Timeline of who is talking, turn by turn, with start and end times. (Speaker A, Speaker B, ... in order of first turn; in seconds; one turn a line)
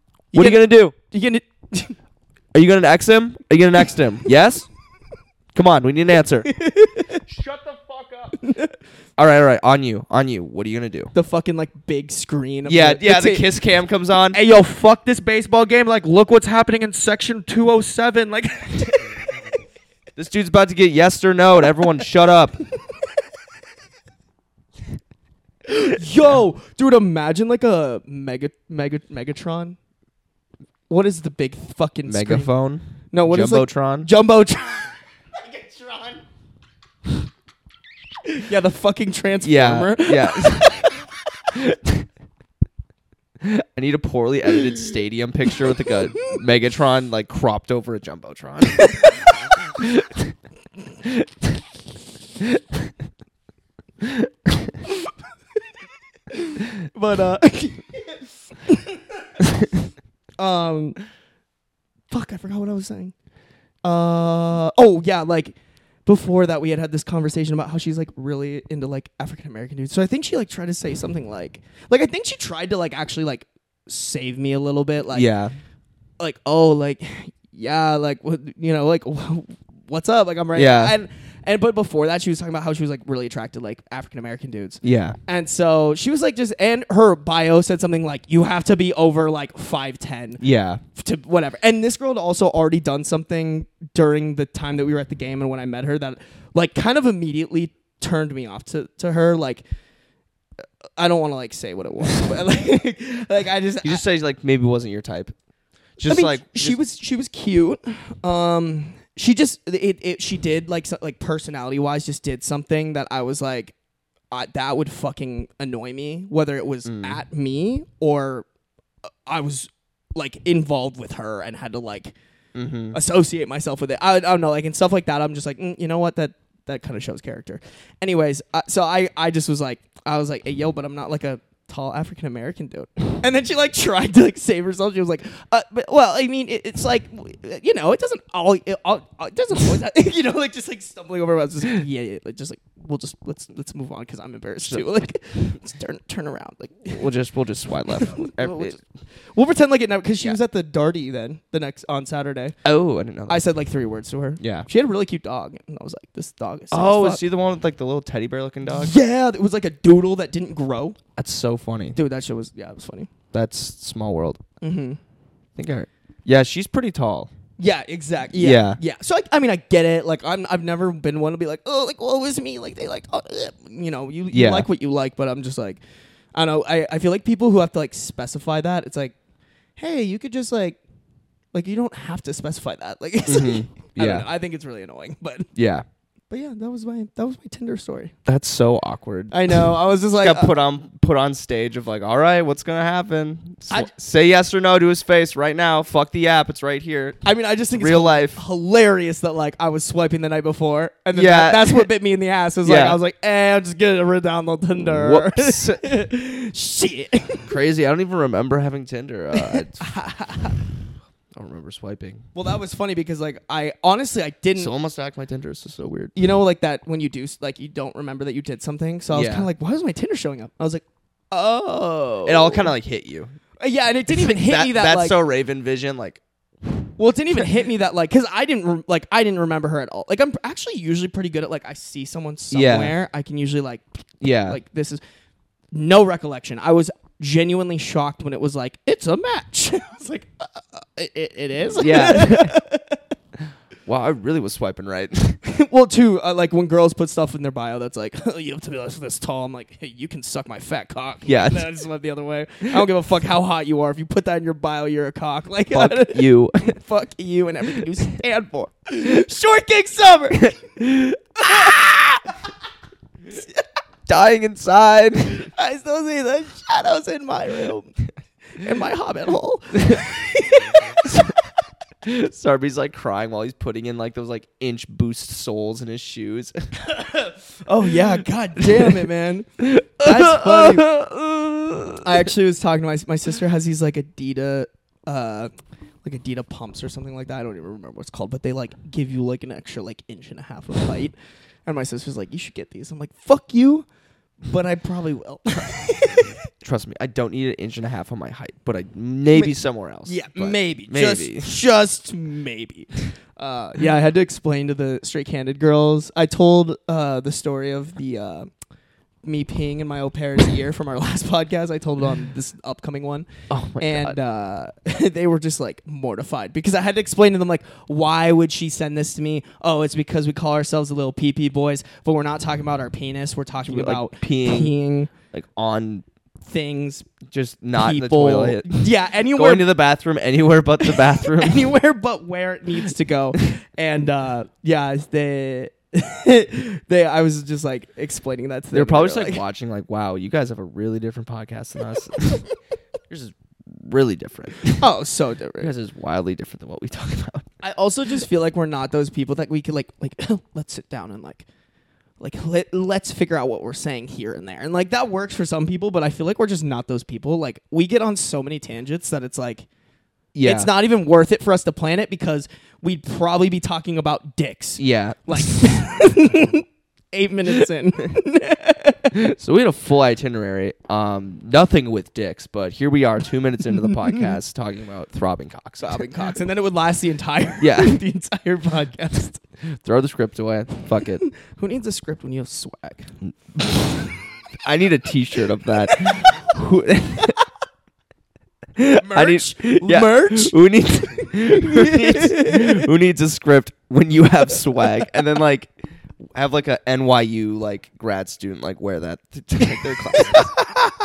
Speaker A: 0.3-1.9
Speaker B: 0.3-0.9
Speaker B: 2.5-4.7
Speaker B: 5.5-6.5
Speaker A: 6.4-7.2
Speaker A: 8.4-8.7
Speaker B: 9.2-11.1
Speaker A: 11.1-13.6
Speaker B: 12.6-14.4
Speaker A: 14.3-19.1
Speaker B: 20.1-22.6
Speaker A: 25.7-29.8
Speaker A: 30.9-32.5
Speaker B: 32.0-34.1
Speaker A: 33.1-36.2
Speaker A: 38.3-40.9
Speaker B: 39.4-40.9
Speaker B: 41.5-42.0
Speaker B: 43.4-49.3
Speaker A: 48.8-49.1
Speaker B: 49.8-50.3
Speaker B: 51.0-51.5
Speaker B: 54.0-54.7
Speaker A: 56.3-59.4
Speaker A: 60.4-61.0
Speaker A: 62.1-63.1
Speaker A: 63.8-75.3
Speaker B: 75.1-75.5
Speaker A: 76.2-90.4
Speaker B: 80.5-80.9
Speaker B: 84.8-85.2
Speaker B: 90.4-90.8
Speaker A: 90.9-99.6
Speaker A: 101.0-104.0
Speaker B: 103.8-105.3
Speaker B: 106.0-106.8
Speaker A: 106.0-113.7
Speaker A: 114.3-118.5
Speaker B: 116.8-117.2
Speaker A: 119.2-122.1
Speaker B: 122.5-123.0
Speaker A: 122.9-147.1
Speaker B: 146.9-148.8
Speaker A: 148.0-148.8
Speaker A: 149.3-152.6
Speaker B: 152.6-153.4
Speaker A: 153.3-157.2
Speaker B: 154.4-154.7
Speaker B: 156.7-158.9
Speaker A: 158.7-161.0
Speaker B: 161.2-162.0
Speaker A: 161.9-163.1
Speaker B: 163.3-164.4
Speaker A: 164.6-165.0
Speaker B: 165.6-167.3
Speaker A: 167.6-175.8
Speaker B: 168.3-168.8
Speaker B: 174.3-174.7
Speaker A: 176.3-179.1
Speaker A: 179.8-180.8
Speaker A: 181.5-185.5
Speaker B: 183.2-184.2
Speaker B: 185.5-185.8
Speaker A: 186.3-188.1
Speaker B: 188.2-197.2
Speaker A: 189.3-190.5
Speaker A: 197.2-207.5
Speaker B: 197.7-198.4
Speaker B: 201.1-201.9
Speaker B: 202.6-203.0
Speaker B: 204.8-206.0
Speaker B: 207.5-209.9
Speaker A: 209.3-210.6
Speaker B: 211.3-212.2
Speaker A: 212.3-214.7
Speaker B: 214.6-216.2
Speaker A: 216.1-222.7
Speaker B: 219.1-219.5
Speaker B: 222.2-223.3
Speaker A: 223.6-225.2
Speaker B: 224.1-226.2
Speaker A: 227.0-235.0
Speaker B: 232.5-232.9
Speaker B: 234.2-234.6
Speaker A: 235.7-243.0
Speaker B: 241.7-242.6
Speaker B: 243.8-245.4
Speaker A: 245.4-262.5
Speaker B: 251.2-251.7
Speaker B: 255.7-256.8
Speaker B: 260.8-261.1
Speaker A: 263.3-263.6
Speaker B: 264.1-265.5
Speaker A: 265.3-268.0
Speaker A: 268.5-271.1
Speaker B: 271.0-271.3
Speaker B: 272.0-276.6
Speaker A: 276.9-280.9
Speaker B: 278.6-279.1
Speaker B: 279.6-282.3
Speaker A: 282.0-285.5
Speaker A: 286.0-291.1
Speaker A: 291.6-293.9
Speaker A: 294.4-296.4
Speaker B: 296.6-301.6
Speaker A: 299.3-308.5
Speaker A: 309.2-313.3
Speaker B: 313.5-314.1
Speaker A: 313.8-325.1
Speaker B: 323.6-324.8
Speaker B: 325.3-326.1
Speaker A: 326.4-327.1
Speaker B: 327.3-331.7
Speaker A: 327.8-329.7
Speaker A: 330.8-339.4
Speaker B: 338.7-342.4
Speaker B: 343.1-344.8
Speaker A: 344.8-345.7
Speaker B: 345.6-347.5
Speaker A: 347.6-351.4
Speaker A: 352.2-359.7
Speaker B: 360.3-360.7
Speaker A: 360.4-369.2
Speaker B: 364.8-365.9
Speaker B: 369.1-376.1
Speaker A: 375.8-379.4
Speaker B: 377.6-378.0
Speaker B: 379.6-381.2
Speaker A: 381.1-383.1
Speaker B: 383.5-383.9
Speaker B: 384.6-387.4
Speaker A: 385.9-386.4
Speaker B: 388.8-400.6
Speaker A: 388.9-390.5
Speaker A: 391.1-392.8
Speaker A: 400.1-400.4